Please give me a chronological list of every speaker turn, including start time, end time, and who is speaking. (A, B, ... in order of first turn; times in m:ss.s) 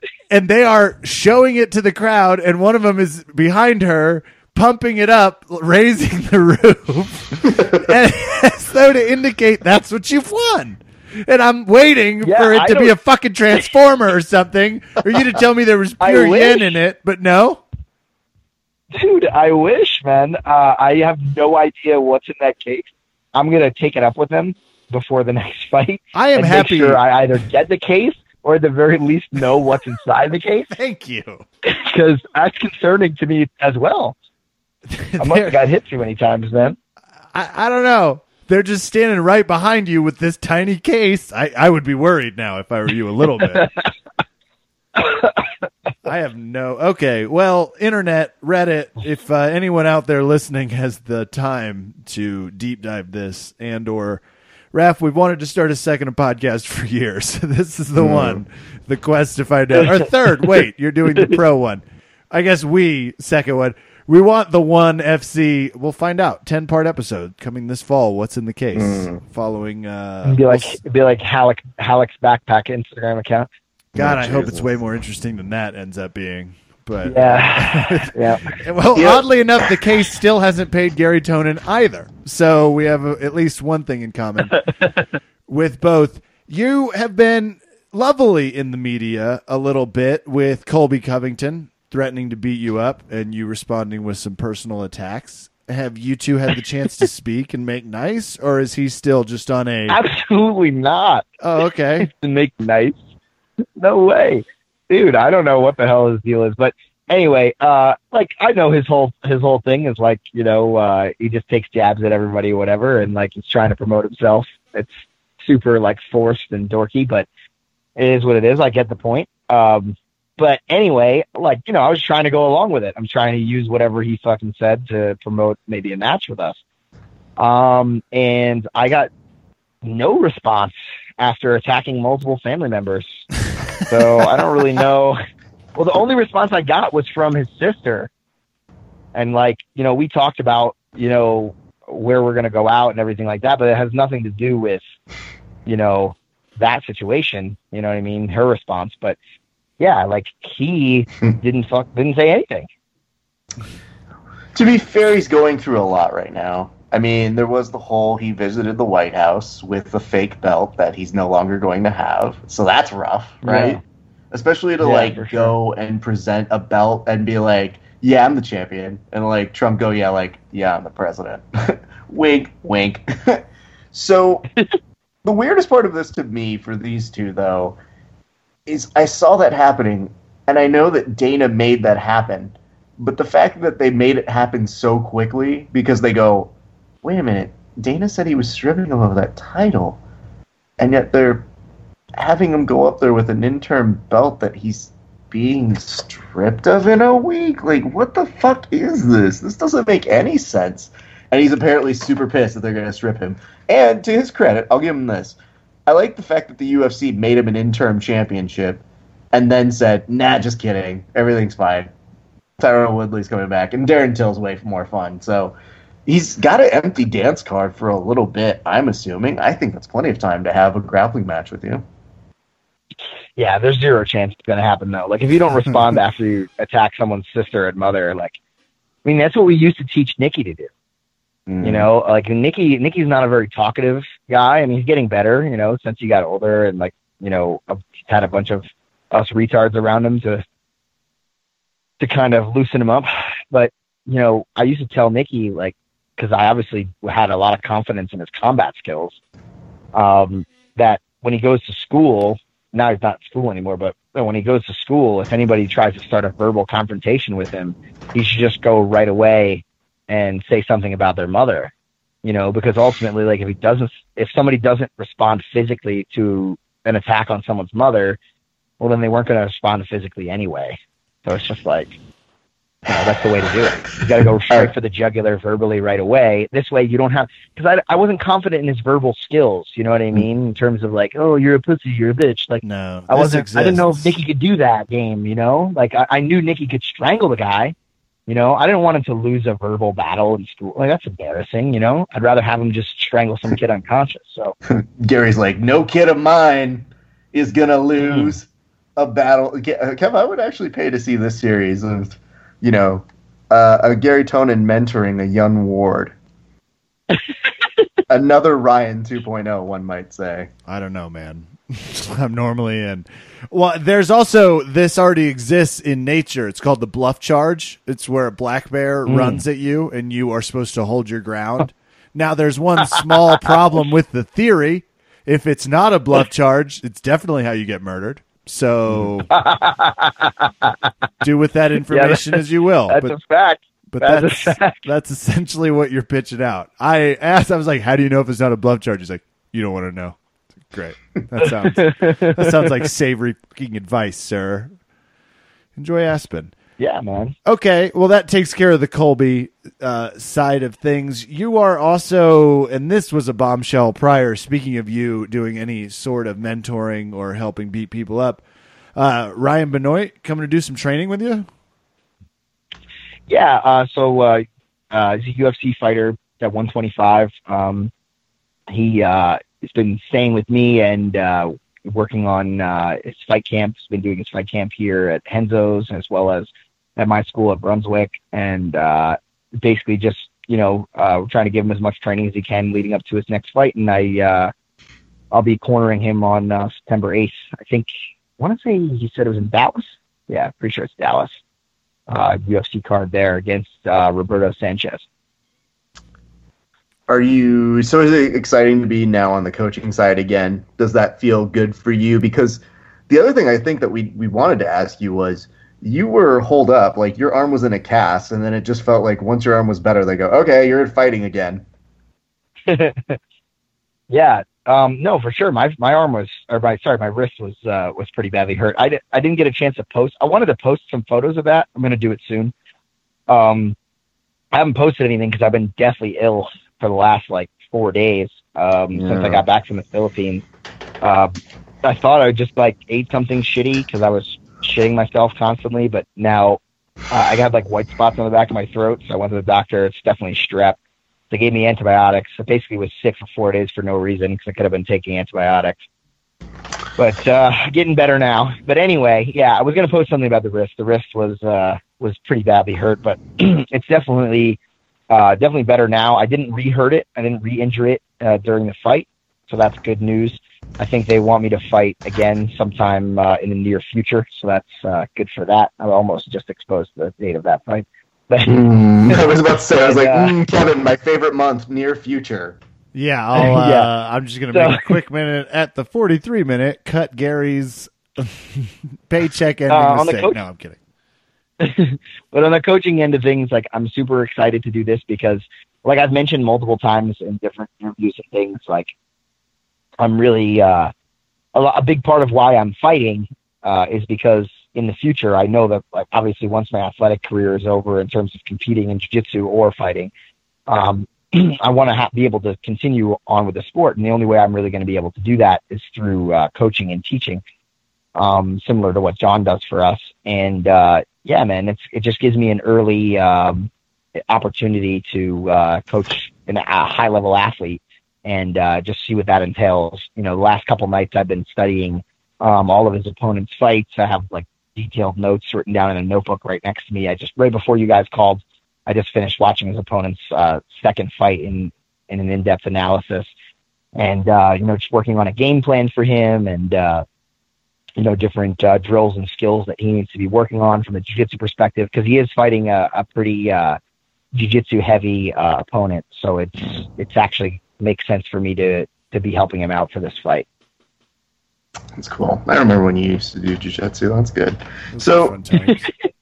0:00.3-0:17.6 A
0:12.2-0:12.9 B
0:16.0-0:16.7 B
0:18.9-0:30.7 B
0:26.1-0:27.0 A
0:30.7-0:31.4 A
0:31.6-0:34.2 B
0:34.9-0:35.6 A
0:35.2-0:36.8 B
0:37.3-0:43.7 A
0:45.0-0:45.3 B
0:46.0-0:54.2 A
0:54.7-1:10.8 A
0:58.0-0:58.4 C
0:59.8-1:00.5 B
1:08.7-1:09.2 C
1:10.2-1:13.5 B
1:13.9-1:14.7 C
1:13.9-1:24.5 A
1:17.0-1:18.5 B
1:19.0-1:19.2 C
1:24.5-1:25.0 B
1:25.5-1:40.0 A
1:39.9-1:41.2 B
1:41.4-1:42.1 A
1:42.0-1:43.0 B
1:43.8-1:57.3 B
1:58.0-2:06.6 B
2:07.4-2:09.1 B
2:09.8-2:13.2 B
2:13.8-2:15.2 B
2:15.7-2:18.1 B
2:19.1-2:24.8 B
2:25.6-2:29.2 B
2:29.8-2:32.7 B
2:34.5-2:43.8 C
2:43.4-2:43.8 B
2:44.3-2:54.5 C
2:44.8-2:45.5 B
2:55.2-2:57.8 C
2:58.7-3:06.5 C
3:07.0-3:10.0 C
3:10.8-3:11.4 C
3:12.2-3:31.9 C
3:32.6-3:35.5 C
3:36.0-3:41.8 C
3:43.4-3:48.4 B
3:49.0-3:50.7 B
3:51.5-3:51.9 C
3:51.6-4:00.4 B
4:02.0-4:09.2 B
4:09.9-4:21.7 B
4:22.2-4:28.2 B
4:28.8-4:31.9 B
4:32.9-4:47.7 B
4:42.6-4:44.2 A
4:48.3-4:54.5 B
4:54.7-5:06.1 C
4:58.0-4:58.3 B
5:08.1-5:10.5 C
5:10.7-5:29.3 A
5:19.1-5:19.4 B
5:29.3-5:30.9 B
5:31.2-5:33.2 A
5:31.9-5:34.8 B
5:33.9-5:44.7 A
5:41.4-5:42.8 B
5:45.8-5:46.5 A
5:46.8-5:47.3 B
5:47.4-5:58.4 A
5:58.9-6:01.4 A
6:03.3-6:07.9 B
6:08.7-6:24.5 B
6:25.3-6:31.3 B
6:32.1-6:35.0 B
6:37.1-6:51.6 C
6:52.7-6:53.2 B
6:54.1-7:02.5 B
7:03.3-7:03.8 B
7:04.5-7:10.4 B
7:08.9-7:09.4 C
7:11.0-7:16.6 B
7:17.1-7:20.8 B
7:21.3-7:25.8 B
7:27.0-7:34.6 B
7:35.1-7:50.3 B
7:48.4-7:52.6 C
7:52.9-8:00.8 A
7:53.4-7:53.9 B
7:54.5-7:54.9 B
7:59.7-8:00.4 B
8:01.6-8:08.9 B
8:10.0-8:10.9 B
8:11.5-8:20.1 B
8:20.7-8:27.4 B
8:28.1-8:33.7 B
8:34.3-8:53.3 B
8:53.9-8:57.0 B
8:58.0-9:03.8 B
9:04.3-9:10.5 B
9:12.0-9:15.4 C
9:14.9-9:15.9 A